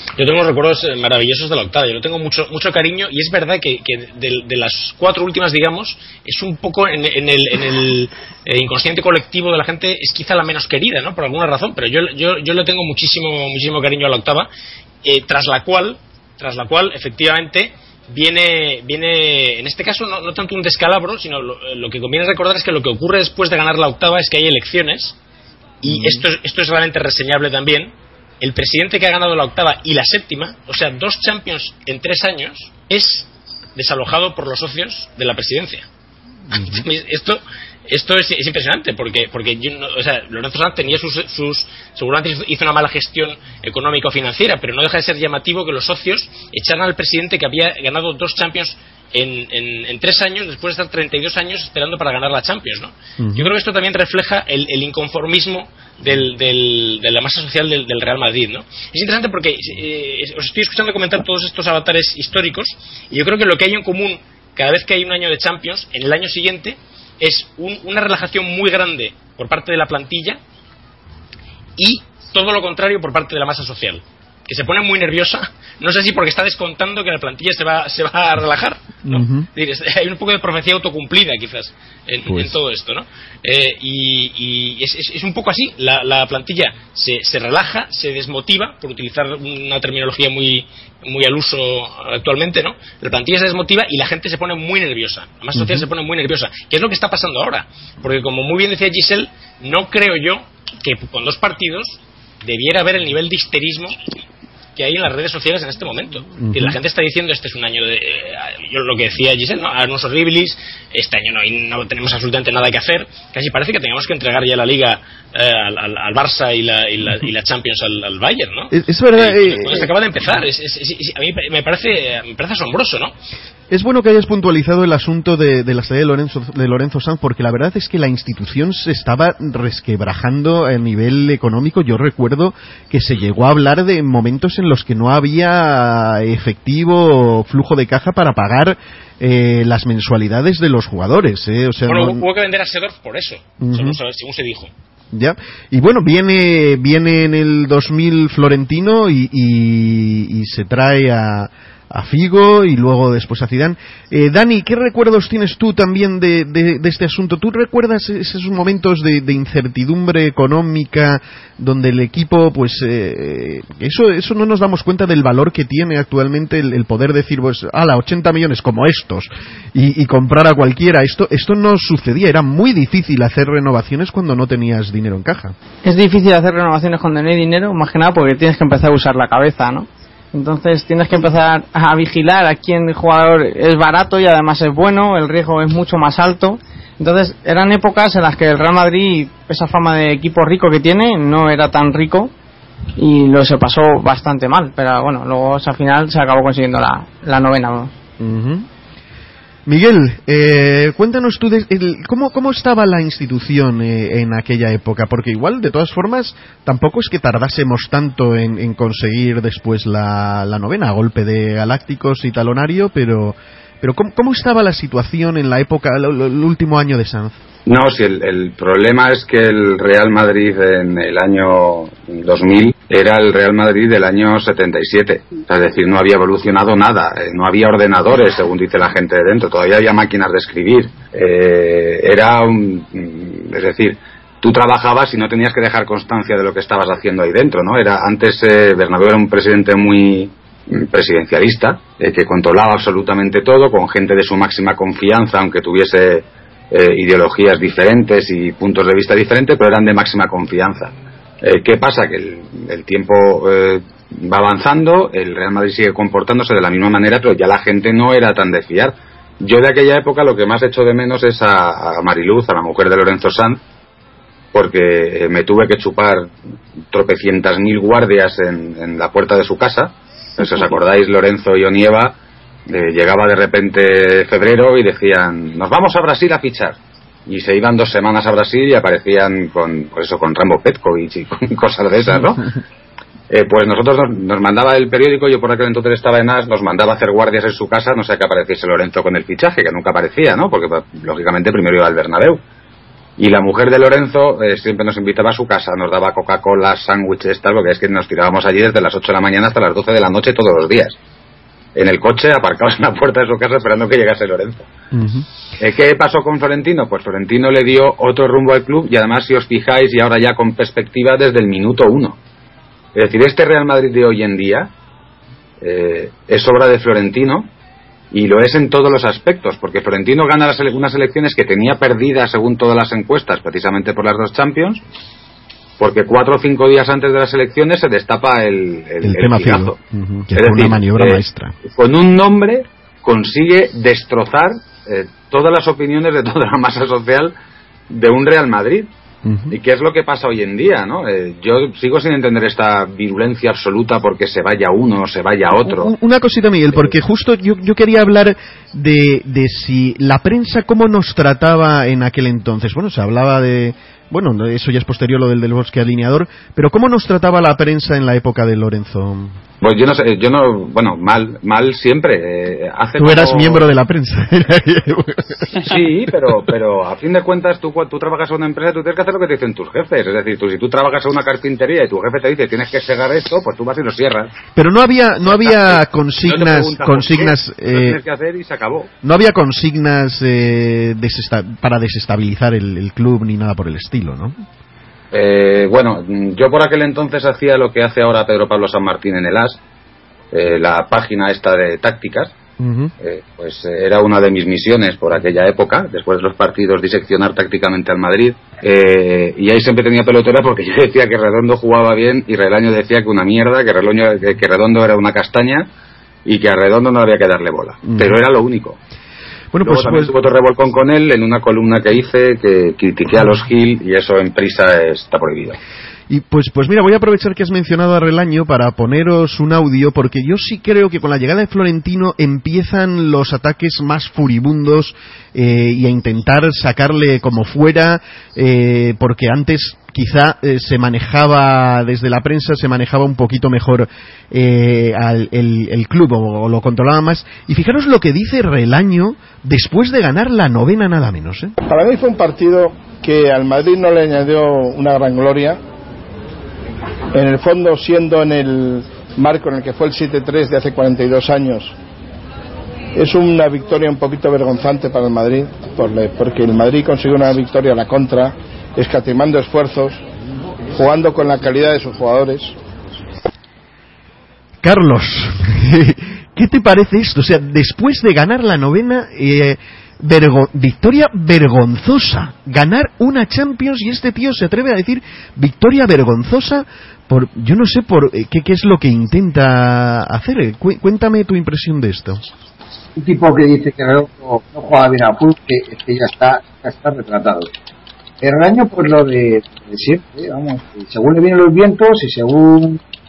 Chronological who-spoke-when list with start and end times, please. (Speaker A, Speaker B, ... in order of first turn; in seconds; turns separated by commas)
Speaker A: 0.2-14.5, Speaker A: 15.0-25.2, Speaker A: 25.8-35.9, Speaker B: 25.8-26.3, Speaker B: 36.5-36.9, Speaker A: 36.5-70.4, Speaker B: 53.2-53.5, Speaker A: 71.8-104.0, Speaker B: 79.0-79.5, Speaker B: 82.3-82.5, Speaker B: 95.5-95.9, Speaker A: 104.8-123.1, Speaker B: 106.4-106.8, Speaker B: 118.7-119.9, Speaker B: 123.7-142.2, Speaker A: 141.9-144.7, Speaker B: 143.6-144.0, Speaker B: 145.1-175.6, Speaker C: 175.8-192.3, Speaker C: 193.0-197.9, Speaker B: 198.2-198.7, Speaker B: 199.7-217.4, Speaker D: 217.7-263.6, Speaker D: 264.5-266.3, Speaker D: 266.9-282.5, Speaker D: 283.3-292.4, Speaker D: 293.2-301.0, Speaker D: 301.8-304.7, Speaker B: 304.9-305.2, Speaker D: 305.6-312.2, Speaker D: 312.9-314.7, Speaker D: 315.6-317.5, Speaker D: 318.1-324.8, Speaker D: 325.8-329.8, Speaker B: 329.0-331.6, Speaker D: 330.4-337.3, Speaker D: 337.9-338.9, Speaker B: 339.2-339.6, Speaker D: 339.5-345.9, Speaker B: 345.5-359.4, Speaker D: 359.6-363.7, Speaker B: 363.0-365.6, Speaker D: 365.6-374.3, Speaker B: 374.6-378.0, Speaker D: 375.3-378.9, Speaker B: 379.0-384.4, Speaker D: 385.1-389.6, Speaker D: 390.3-392.4, Speaker B: 392.6-392.9, Speaker D: 393.0-405.7, Speaker D: 406.2-408.8, Speaker B: 407.9-408.2, Speaker B: 409.5-410.1, Speaker D: 409.6-415.6, Speaker B: 416.1-441.5, Speaker E: 441.7-445.6, Speaker E: 447.1-451.8, Speaker E: 452.9-460.0, Speaker E: 460.8-462.6, Speaker B: 464.6-482.2, Speaker F: 483.0-487.5, Speaker F: 488.2-492.8